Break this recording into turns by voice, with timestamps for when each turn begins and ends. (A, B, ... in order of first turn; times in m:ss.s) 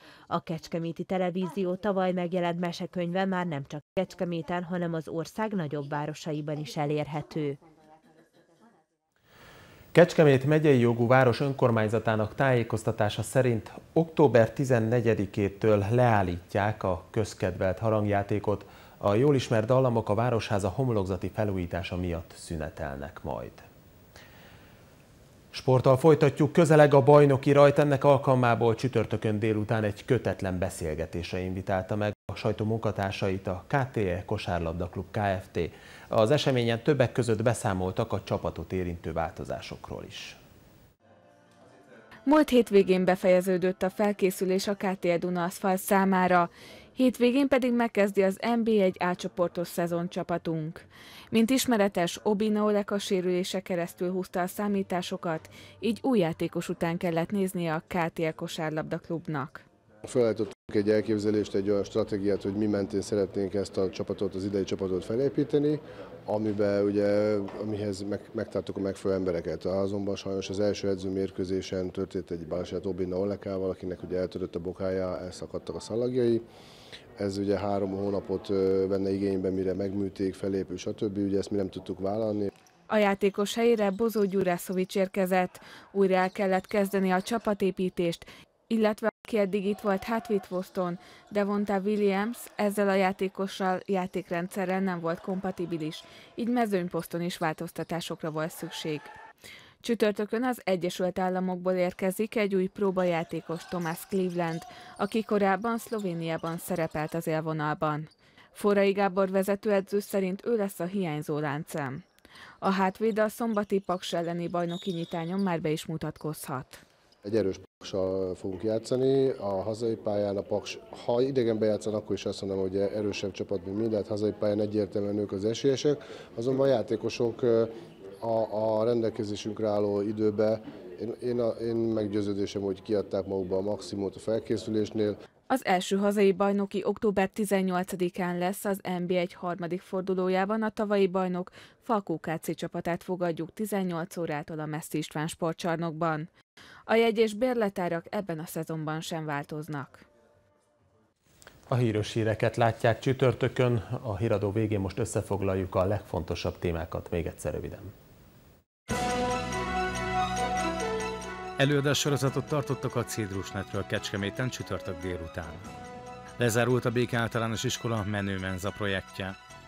0:00.3-0:07.6 A
0:09.9-0:23.6 B
0:25.5-0:40.4 B
0:42.2-0:59.6 C
1:00.0-1:16.4 D
1:17.2-1:22.5 D
1:22.9-1:39.1 C
1:39.8-1:52.0 C
1:52.6-1:56.8 C
1:57.2-2:15.2 D
2:15.5-2:26.3 C
2:26.9-2:30.0 C
2:31.7-2:37.9 B
2:41.6-2:45.6 E
2:46.4-2:49.4 E